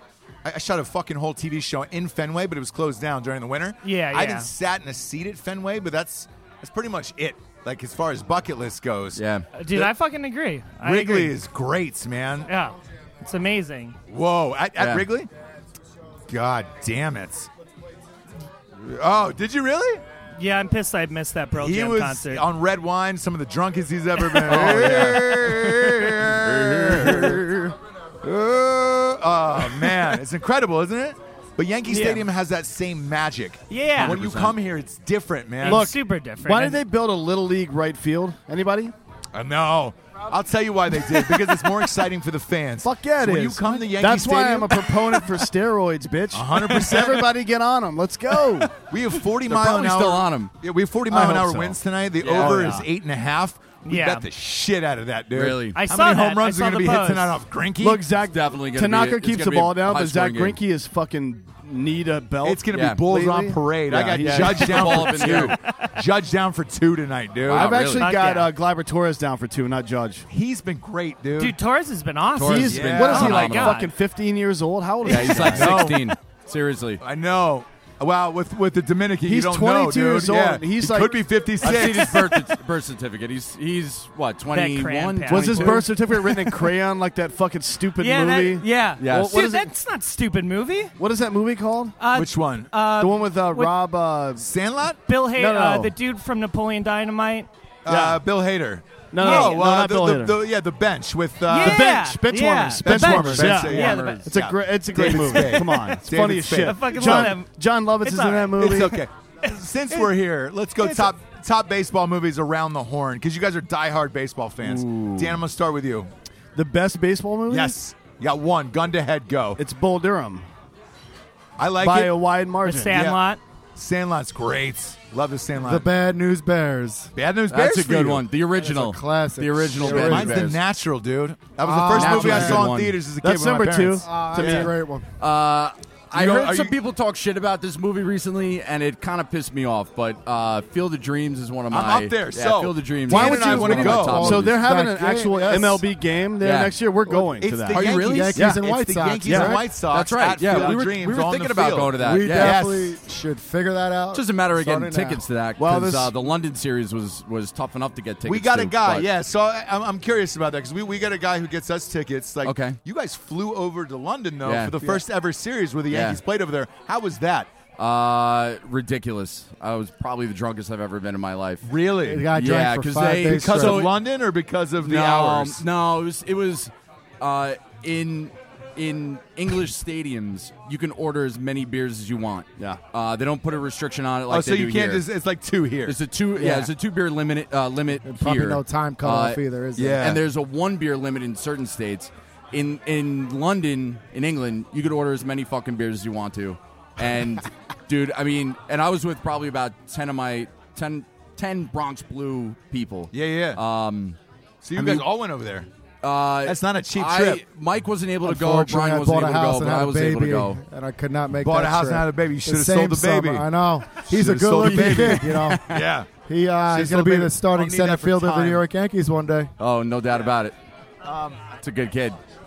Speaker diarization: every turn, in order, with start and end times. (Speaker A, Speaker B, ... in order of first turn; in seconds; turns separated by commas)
Speaker A: 0.4-9.9, Speaker B: 3.8-4.5, Speaker C: 9.2-9.4, Speaker B: 9.6-11.3, Speaker A: 10.8-12.5, Speaker B: 12.5-14.0, Speaker A: 14.1-15.3, Speaker C: 14.8-15.1, Speaker A: 16.3-17.5, Speaker A: 18.8-20.0, Speaker B: 20.4-22.4, Speaker A: 21.6-27.4, Speaker C: 24.4-27.6, Speaker D: 27.1-27.5, Speaker A: 28.2-35.9, Speaker B: 31.9-32.2, Speaker B: 33.7-34.2, Speaker C: 34.0-34.6, Speaker B: 35.6-36.8, Speaker D: 35.6-38.9, Speaker A: 39.3-45.2, Speaker D: 42.8-48.7, Speaker A: 46.3-47.3, Speaker A: 48.9-58.0, Speaker C: 49.5-50.5, Speaker D: 51.1-51.8, Speaker C: 52.2-52.8, Speaker D: 52.3-52.9, Speaker B: 53.9-54.3, Speaker C: 55.3-55.8, Speaker B: 55.8-57.4, Speaker D: 57.8-65.4, Speaker C: 58.3-60.6, Speaker A: 62.4-67.7, Speaker C: 62.7-63.0, Speaker C: 64.2-65.6, Speaker B: 65.3-65.8, Speaker D: 67.5-70.3, Speaker C: 67.5-68.2, Speaker B: 68.0-68.5, Speaker A: 70.3-71.6, Speaker B: 71.4-73.9, Speaker C: 72.3-73.8, Speaker D: 72.4-75.9, Speaker A: 72.7-73.3, Speaker C: 75.0-77.0, Speaker A: 75.4-76.1, Speaker A: 77.0-82.4, Speaker D: 79.2-81.3, Speaker C: 81.6-85.9, Speaker B: 84.5-85.9, Speaker D: 85.3-89.7, Speaker B: 88.0-90.9, Speaker C: 89.0-89.4, Speaker D: 91.0-92.0, Speaker B: 92.0-93.7, Speaker A: 92.1-92.7, Speaker D: 93.0-94.5, Speaker A: 94.4-95.0, Speaker B: 95.1-97.5, Speaker D: 95.3-95.9, Speaker A: 97.8-102.0, Speaker D: 97.9-98.2, Speaker D: 99.1-100.4, Speaker B: 99.2-99.6, Speaker B: 101.5-104.3, Speaker D: 101.6-109.0, Speaker A: 102.8-107.3, Speaker C: 103.4-104.2, Speaker B: 106.6-107.5, Speaker B: 108.0-108.9, Speaker A: 108.6-116.1, Speaker B: 110.8-111.1, Speaker C: 114.6-115.2, Speaker D: 116.5-117.8, Speaker A: 117.5-119.6, Speaker D: 119.6-120.5, Speaker A: 121.6-122.2, Speaker D: 121.8-123.0, Speaker B: 122.7-123.4, Speaker A: 122.9-123.2, Speaker A: 123.8-125.9, Speaker E: 125.6-127.1, Speaker A: 127.2-128.2, Speaker C: 127.5-130.6, Speaker E: 128.6-130.5, Speaker A: 129.8-134.7, Speaker E: 131.7-132.5, Speaker C: 131.9-133.0, Speaker D: 132.0-134.6, Speaker E: 134.0-135.1, Speaker C: 134.4-134.7, Speaker C: 135.2-144.6, Speaker A: 136.1-136.7, Speaker A: 141.7-144.4, Speaker D: 143.1-148.6, Speaker E: 143.1-145.8, Speaker C: 146.4-146.8, Speaker A: 147.4-152.9, Speaker C: 147.7-148.5, Speaker E: 148.0-149.7, Speaker D: 149.2-149.5, Speaker C: 149.8-152.6, Speaker E: 152.0-155.2, Speaker C: 154.1-159.1, Speaker D: 155.6-156.1, Speaker A: 158.3-167.5, Speaker C: 162.4-162.8, Speaker C: 164.4-165.0, Speaker C: 165.9-166.2, Speaker C: 167.8-171.7, Speaker A: 171.7-172.3, Speaker E: 172.0-173.9, Speaker C: 172.3-174.0, Speaker A: 173.3-175.6, Speaker C: 174.8-185.1, Speaker A: 184.3-186.0, Speaker C: 185.9-189.4, Speaker E: 186.4-186.7, Speaker E: 188.1-190.1, Speaker A: 189.8-190.2, Speaker C: 189.9-204.2, Speaker A: 203.1-203.6, Speaker A: 204.6-205.7, Speaker C: 204.8-205.1, Speaker C: 206.0-210.6, Speaker A: 206.4-207.4, Speaker E: 208.2-215.7, Speaker A: 211.4-216.1, Speaker C: 214.6-215.8, Speaker E: 216.2-219.5, Speaker A: 216.7-218.6, Speaker C: 219.6-220.6, Speaker A: 221.0-221.4, Speaker C: 221.6-222.2